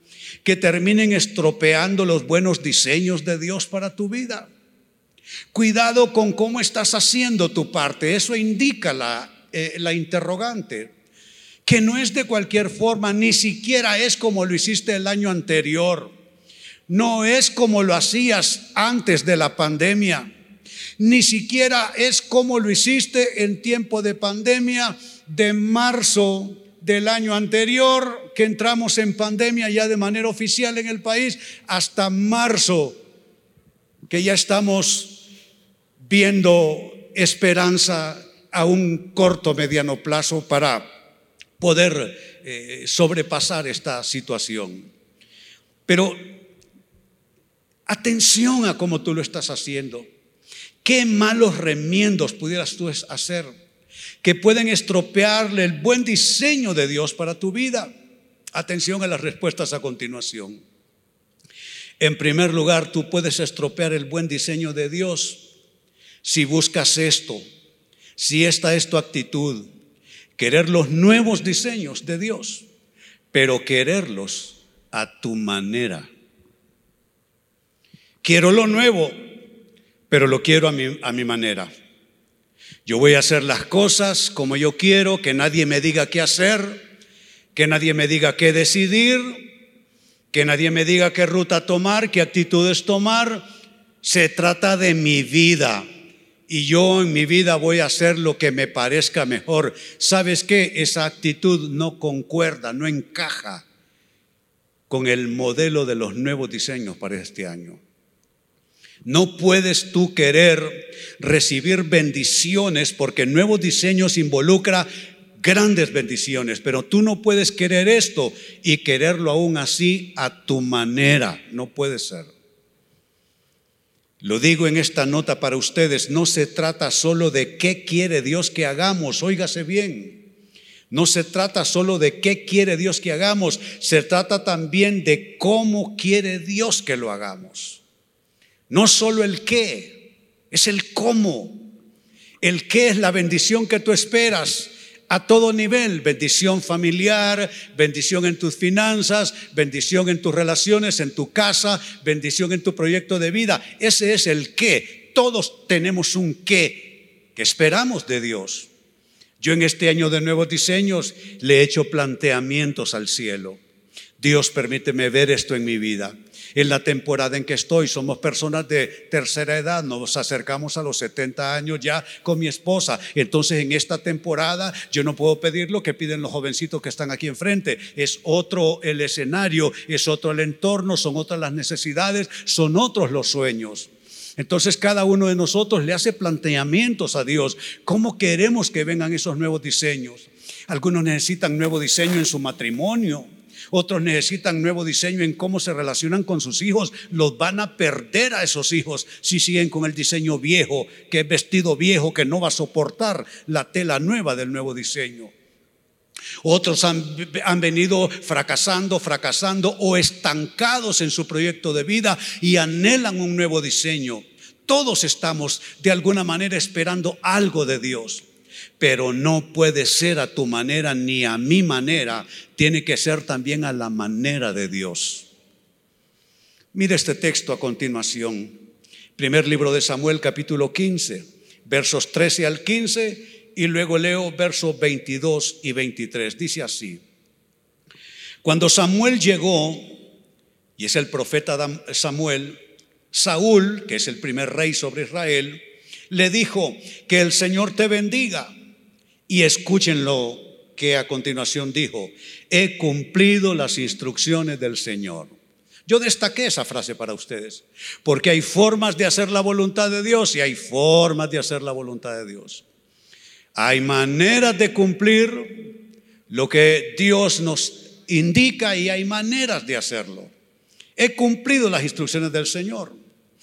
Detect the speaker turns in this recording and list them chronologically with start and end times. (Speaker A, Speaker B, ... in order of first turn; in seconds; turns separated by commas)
Speaker A: 0.4-4.5, Speaker A: 5.5-10.9, Speaker A: 11.7-16.1, Speaker A: 16.9-20.3, Speaker A: 21.0-33.0, Speaker A: 34.1-35.2, Speaker A: 36.0-40.9, Speaker A: 41.6-44.9, Speaker A: 45.9-46.4, Speaker A: 47.9-50.1, Speaker A: 50.8-53.5, Speaker A: 54.2-57.9, Speaker A: 58.5-60.6, Speaker A: 62.0-65.5, Speaker A: 66.2-67.4, Speaker A: 68.2-69.7, Speaker A: 70.4-72.7, Speaker A: 73.3-76.1, Speaker A: 78.2-79.3, Speaker A: 80.1-81.7, Speaker A: 82.8-86.9, Speaker A: 87.5-89.5, Speaker A: 90.3-93.5, Speaker A: 94.0-95.9, Speaker A: 96.5-103.7, Speaker A: 104.9-107.8, Speaker A: 109.0-114.9, Speaker A: 115.4-122.3, Speaker A: 124.2-130.2, Speaker A: 130.9-137.8, Speaker A: 138.7-141.7, Speaker A: 142.4-158.7, Speaker A: 159.4-163.6, Speaker A: 164.2-205.3, Speaker A: 206.4-218.2, Speaker A: 218.8-225.3, Speaker A: 226.7-228.6, Speaker A: 229.2-237.0, Speaker A: 238.4-240.0, Speaker A: 240.8-242.6, Speaker A: 243.1-248.5, Speaker A: 249.3-255.3, Speaker A: 255.9-262.6, Speaker A: 263.6-265.8, Speaker A: 266.3-270.3, Speaker A: 271.0-273.0